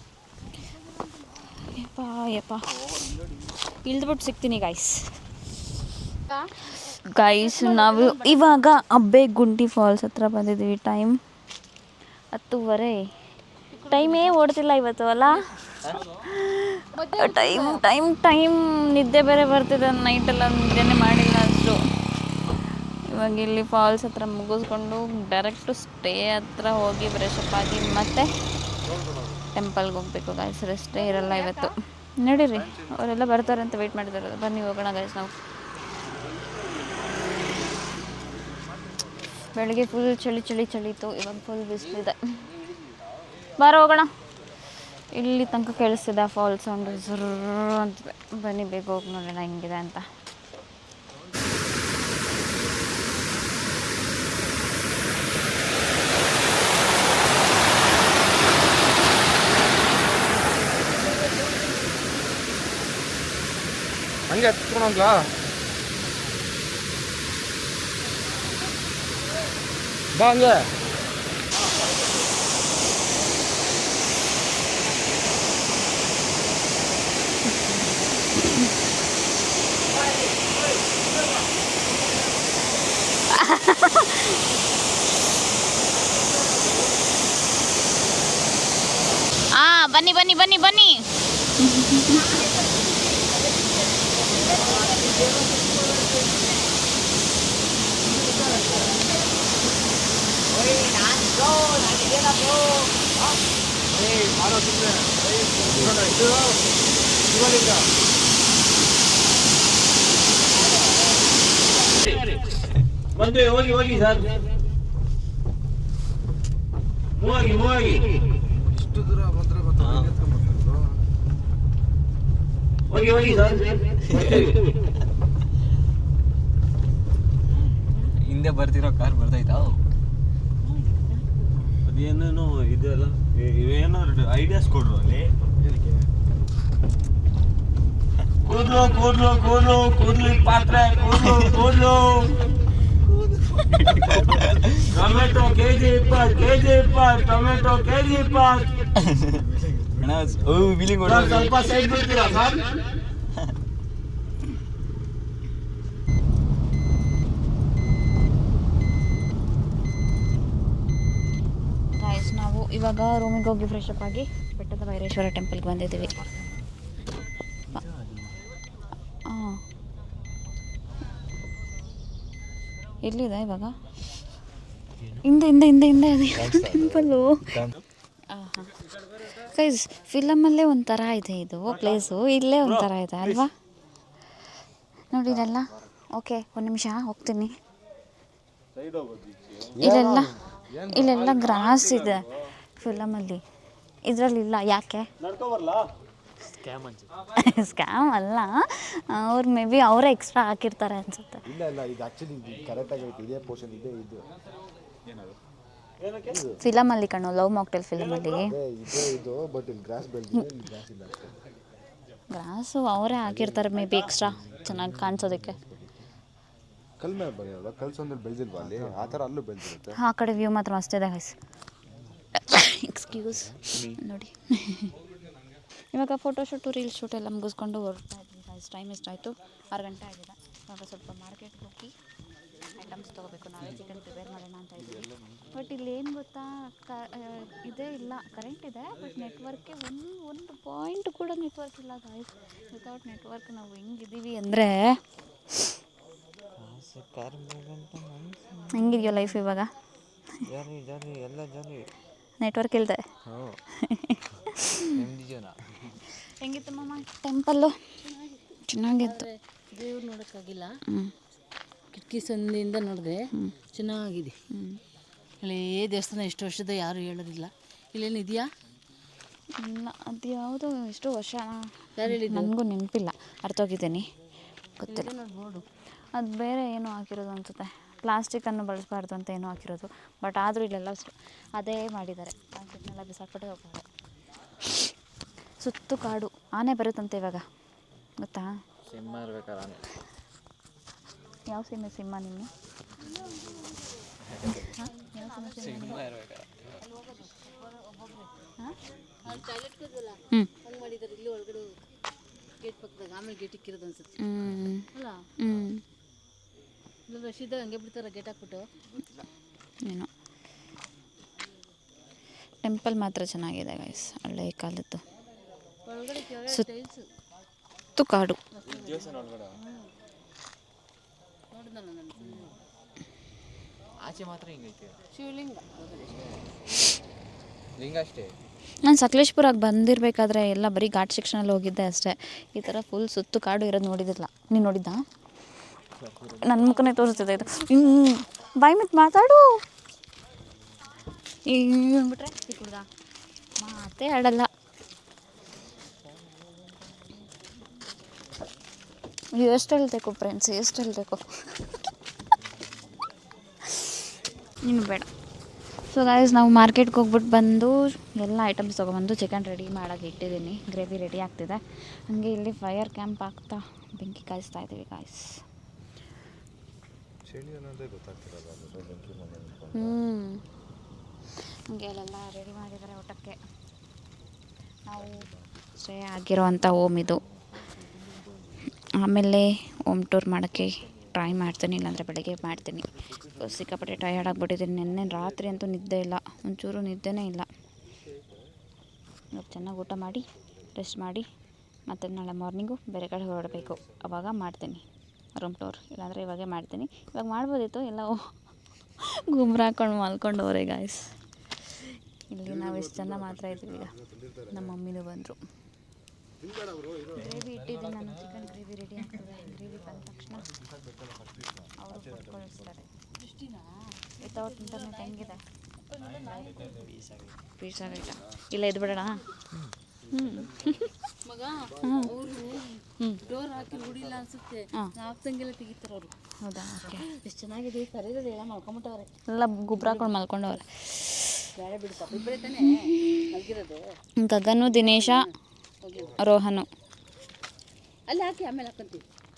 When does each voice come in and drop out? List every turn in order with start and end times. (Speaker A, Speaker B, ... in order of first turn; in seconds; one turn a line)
Speaker A: 1.3-3.0
Speaker A: 3.8-5.0
Speaker A: 6.7-11.2
Speaker A: 12.3-12.9
Speaker B: 13.8-14.3
Speaker A: 13.9-15.4
Speaker A: 16.0-21.8
Speaker B: 17.2-17.6
Speaker A: 23.1-28.3
Speaker C: 28.9-29.4
Speaker A: 29.6-35.3
Speaker B: 31.0-31.7
Speaker C: 32.5-33.0
Speaker A: 39.5-42.2
Speaker A: 43.6-44.1
Speaker A: 45.1-50.0
Speaker C: 64.3-65.2
Speaker C: 70.2-70.5
Speaker A: 83.3-84.4
Speaker A: 89.6-91.0
Speaker A: 91.6-92.2
Speaker D: 104.1-105.1
Speaker C: 105.5-106.0
Speaker D: 105.9-106.5
Speaker C: 107.4-107.7
Speaker D: 113.2-114.4
Speaker D: 117.2-118.1
Speaker C: 118.6-121.0
Speaker E: 119.8-120.1
Speaker D: 122.9-124.6
Speaker E: 128.1-129.8
Speaker D: 131.8-135.3
Speaker D: 138.4-142.3
Speaker E: 143.7-144.8
Speaker D: 144.9-148.7
Speaker E: 149.0-149.4
Speaker C: 149.6-150.6
Speaker E: 150.0-151.6
Speaker D: 151.0-152.7
Speaker A: 162.0-166.2
Speaker A: 169.3-169.6
Speaker A: 173.0-173.8
Speaker A: 175.2-177.6
Speaker C: 176.3-177.7
Speaker A: 178.3-178.7
Speaker A: 179.4-183.5
Speaker D: 181.7-182.1
Speaker D: 182.6-183.5
Speaker A: 185.1-187.5
Speaker D: 188.7-189.7
Speaker C: 189.8-191.2
Speaker A: 189.8-190.3
Speaker A: 190.9-192.2
Speaker D: 191.2-192.3
Speaker A: 192.8-193.4
Speaker A: 194.1-195.1
Speaker D: 195.2-195.9
Speaker E: 196.6-197.1
Speaker A: 197.4-201.4
Speaker C: 201.5-204.3
Speaker D: 206.0-206.4
Speaker C: 206.3-206.6
Speaker A: 206.6-208.6
Speaker D: 207.9-208.4
Speaker C: 208.5-211.4
Speaker A: 212.3-215.6
Speaker E: 214.7-215.4
Speaker C: 217.0-220.0
Speaker A: 220.0-221.3
Speaker A: 222.4-224.9
Speaker E: 223.7-224.0
Speaker A: 225.9-231.9
Speaker A: 232.8-244.9
Speaker E: 235.0-235.3
Speaker E: 246.6-249.1
Speaker A: 248.7-249.7
Speaker E: 250.5-251.9
Speaker A: 252.4-253.0
Speaker E: 253.3-253.6
Speaker A: 253.8-254.9
Speaker E: 254.9-255.6
Speaker A: 256.4-257.8
Speaker B: 258.1-258.4
Speaker A: 258.7-259.3
Speaker B: 259.0-260.7
Speaker B: 261.9-264.3
Speaker A: 264.5-264.8
Speaker B: 265.4-268.5
Speaker A: 269.6-274.0
Speaker B: 272.0-272.5
Speaker A: 274.8-275.1
Speaker B: 274.9-275.6
Speaker A: 276.2-283.8
Speaker A: 285.6-287.4
Speaker A: 288.2-288.5
Speaker E: 288.9-289.8
Speaker A: 291.5-292.5
Speaker E: 294.3-294.7
Speaker A: 294.5-296.1
Speaker E: 295.6-296.8
Speaker B: 296.9-298.3
Speaker B: 299.3-301.7
Speaker B: 302.6-304.1
Speaker A: 304.2-304.9
Speaker A: 305.4-305.8
Speaker B: 307.1-308.7
Speaker A: 312.6-315.0
Speaker B: 315.9-317.1
Speaker A: 318.0-318.4
Speaker B: 318.5-319.9
Speaker E: 318.7-319.6
Speaker B: 321.5-322.6
Speaker E: 324.0-324.9
Speaker B: 325.1-326.3
Speaker E: 327.8-328.3
Speaker A: 328.8-335.0
Speaker E: 336.0-336.6
Speaker A: 336.4-339.6
Speaker A: 341.5-342.9
Speaker A: 343.6-344.5
Speaker A: 349.4-351.2
Speaker A: 354.6-355.1
Speaker A: 355.9-365.3
Speaker C: 367.3-370.0
Speaker A: 369.8-370.4
Speaker A: 371.7-373.4
Speaker A: 374.9-375.2
Speaker A: 375.8-377.2
Speaker A: 379.0-387.5
Speaker A: 389.3-391.2
Speaker A: 391.9-394.8
Speaker A: 395.4-398.2
Speaker A: 399.1-401.1
Speaker A: 401.8-403.9
Speaker C: 402.5-404.8
Speaker A: 404.5-405.4
Speaker C: 406.4-407.5
Speaker A: 407.2-410.5
Speaker C: 410.7-412.7
Speaker A: 411.8-412.9
Speaker B: 413.2-413.8
Speaker A: 414.2-415.4
Speaker B: 414.3-415.4
Speaker B: 415.9-416.8
Speaker E: 416.7-417.3
Speaker A: 417.6-419.2
Speaker A: 420.1-420.5
Speaker B: 421.3-426.1
Speaker A: 421.8-422.1
Speaker A: 426.4-427.1
Speaker B: 427.0-429.1
Speaker A: 429.3-431.2
Speaker B: 429.8-430.6
Speaker B: 431.6-433.8
Speaker A: 432.2-433.2
Speaker A: 434.2-435.2
Speaker B: 434.7-436.1
Speaker A: 436.2-436.7
Speaker B: 438.1-439.0